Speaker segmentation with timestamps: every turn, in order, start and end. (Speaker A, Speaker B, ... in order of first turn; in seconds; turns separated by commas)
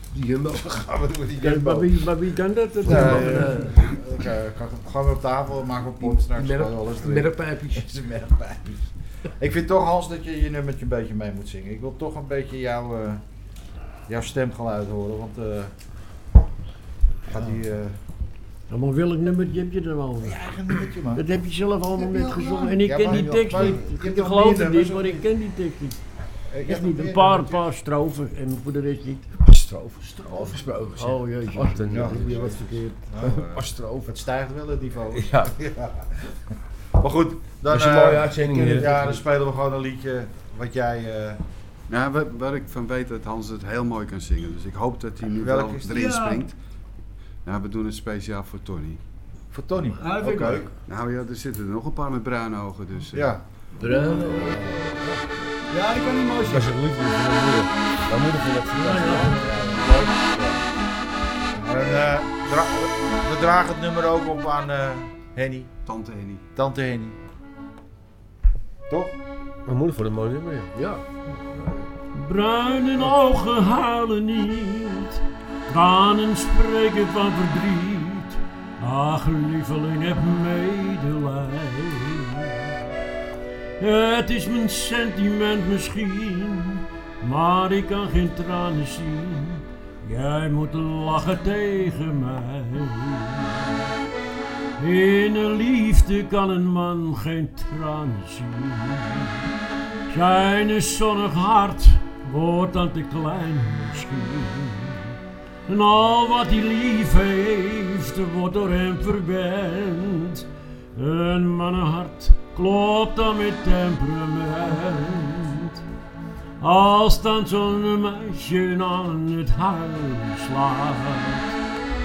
Speaker A: 0.1-1.5, Speaker B: 0.6-1.9, Speaker C: 1.4-3.7, Speaker B: 2.8-13.2, Speaker A: 2.9-3.9, Speaker A: 6.0-8.0, Speaker B: 14.1-15.7, Speaker B: 17.3-18.0, Speaker C: 18.7-20.6, Speaker B: 20.2-21.2, Speaker C: 21.1-26.0, Speaker D: 22.0-23.0, Speaker B: 22.8-25.3, Speaker B: 26.5-27.7, Speaker C: 26.6-29.4, Speaker E: 29.4-32.6, Speaker C: 31.0-33.3, Speaker B: 31.9-36.1, Speaker E: 33.2-34.2, Speaker E: 35.1-35.5, Speaker B: 37.0-41.4, Speaker E: 37.7-39.3, Speaker F: 41.9-46.6, Speaker B: 45.4-46.1, Speaker D: 45.9-46.4, Speaker F: 47.5-49.0, Speaker B: 49.5-50.7, Speaker D: 50.0-50.7, Speaker F: 50.8-53.4, Speaker B: 53.1-53.4, Speaker A: 53.8-55.5, Speaker D: 55.7-56.7, Speaker E: 56.4-59.5, Speaker C: 58.7-59.8, Speaker B: 59.2-60.6, Speaker B: 61.5-65.7, Speaker F: 65.9-66.4, Speaker B: 66.5-67.2, Speaker B: 68.9-69.2, Speaker E: 69.7-70.7, Speaker A: 70.7-71.8, Speaker C: 72.1-82.8, Speaker C: 83.8-93.9, Speaker C: 94.8-99.5, Speaker C: 100.1-115.8, Speaker C: 116.6-121.6